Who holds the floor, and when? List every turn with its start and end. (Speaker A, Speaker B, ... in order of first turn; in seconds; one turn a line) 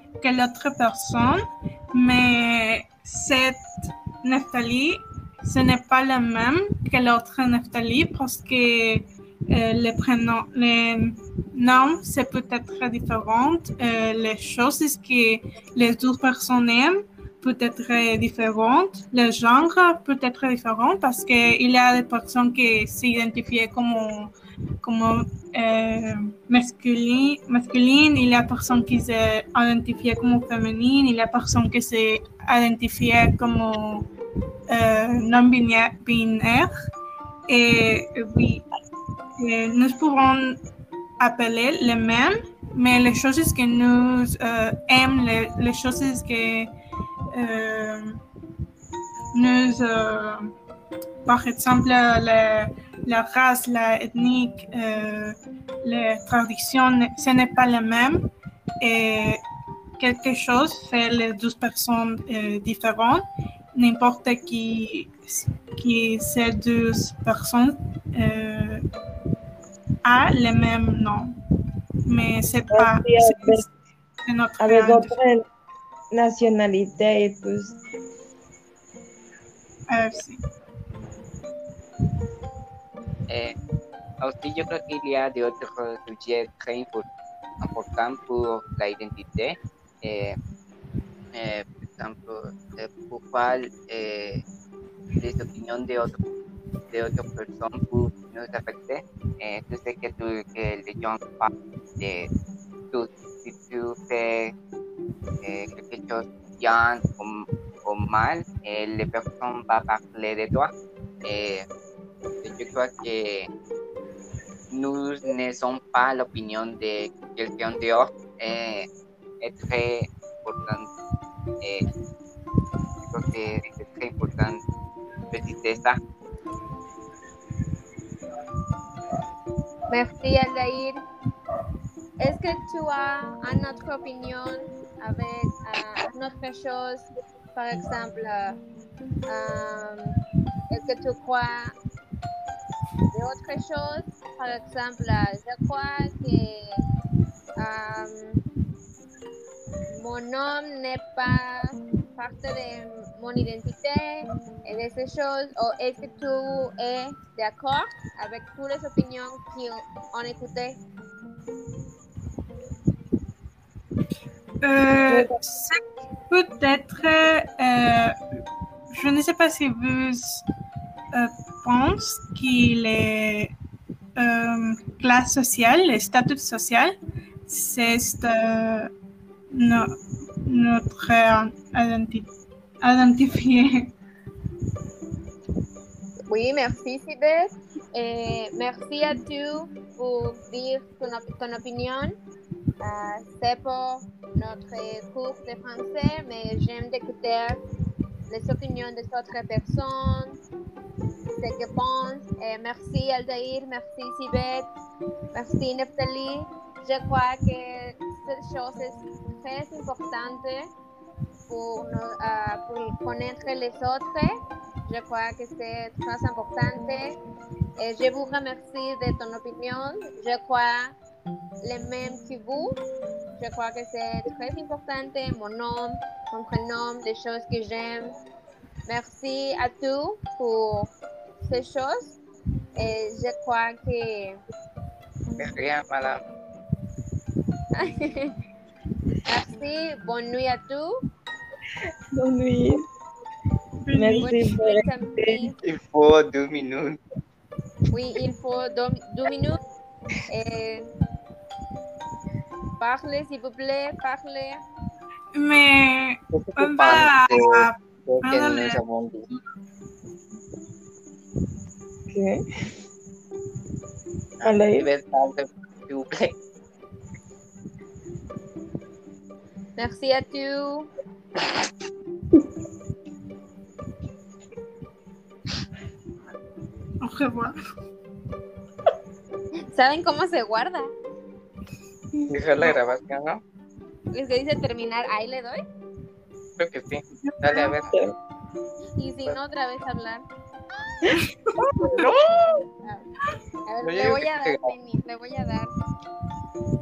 Speaker A: 0.2-34.1
Speaker A: 34.7-36.7
Speaker A: 37.5-38.6
Speaker A: 39.4-40.6
Speaker A: 41.2-46.7
Speaker A: 47.3-48.2
Speaker A: 49.3-50.5
Speaker A: 51.2-58.2
Speaker A: 58.8-59.4
Speaker A: 60.0-68.8
Speaker A: 70.0-71.3
Speaker A: 72.0-73.7
Speaker B: 72.7-73.6
Speaker A: 74.2-75.2
Speaker B: 74.6-75.4
Speaker B: 76.1-77.8
Speaker A: 79.9-80.4
Speaker C: 83.3-83.5
Speaker C: 84.2-87.0
Speaker C: 87.6-90.4
Speaker C: 91.3-94.4
Speaker C: 95.2-96.2
Speaker C: 96.9-102.3
Speaker C: 102.9-104.5
Speaker C: 105.4-110.7
Speaker C: 111.2-111.7
Speaker C: 112.4-113.5
Speaker C: 114.7-118.9
Speaker C: 119.4-120.9
Speaker C: 121.6-121.9
Speaker C: 123.1-124.6
Speaker C: 125.3-126.0
Speaker D: 129.9-131.0
Speaker D: 132.2-138.6
Speaker D: 139.3-140.2
Speaker D: 140.7-141.7
Speaker D: 143.1-146.8
Speaker D: 147.6-148.4
Speaker D: 149.9-160.8
Speaker A: 164.6-168.2
Speaker B: 165.1-165.4
Speaker A: 168.9-170.4
Speaker A: 171.1-173.5
Speaker A: 174.2-178.9
Speaker A: 179.5-182.3
Speaker A: 182.8-183.9
Speaker D: 186.3-192.1
Speaker D: 192.8-197.6
Speaker D: 198.3-200.4
Speaker D: 201.4-204.7
Speaker D: 205.3-210.7
Speaker D: 211.5-217.2
Speaker D: 217.8-220.9
Speaker D: 221.6-222.8
Speaker D: 223.4-228.1
Speaker D: 228.8-230.9
Speaker D: 231.4-232.2
Speaker D: 232.8-234.4
Speaker C: 235.4-236.2
Speaker D: 237.8-238.3
Speaker D: 239.2-240.9
Speaker B: 242.1-242.9
Speaker A: 243.8-244.3
Speaker B: 243.9-245.5
Speaker D: 244.2-245.5
Speaker C: 245.6-247.0
Speaker D: 247.9-249.6
Speaker D: 250.3-250.9
Speaker D: 252.8-254.6
Speaker A: 255.3-258.8
Speaker C: 256.3-259.3
Speaker B: 262.1-262.4
Speaker C: 264.4-266.3
Speaker B: 264.4-264.9
Speaker D: 269.8-270.9
Speaker A: 277.0-277.5
Speaker D: 279.7-280.9
Speaker C: 282.3-283.4
Speaker D: 284.1-285.6
Speaker C: 286.6-287.9
Speaker B: 287.5-288.1
Speaker D: 289.0-290.2
Speaker B: 291.1-292.6
Speaker A: 291.5-292.1
Speaker D: 292.8-293.1
Speaker D: 293.6-295.7
Speaker C: 293.8-294.7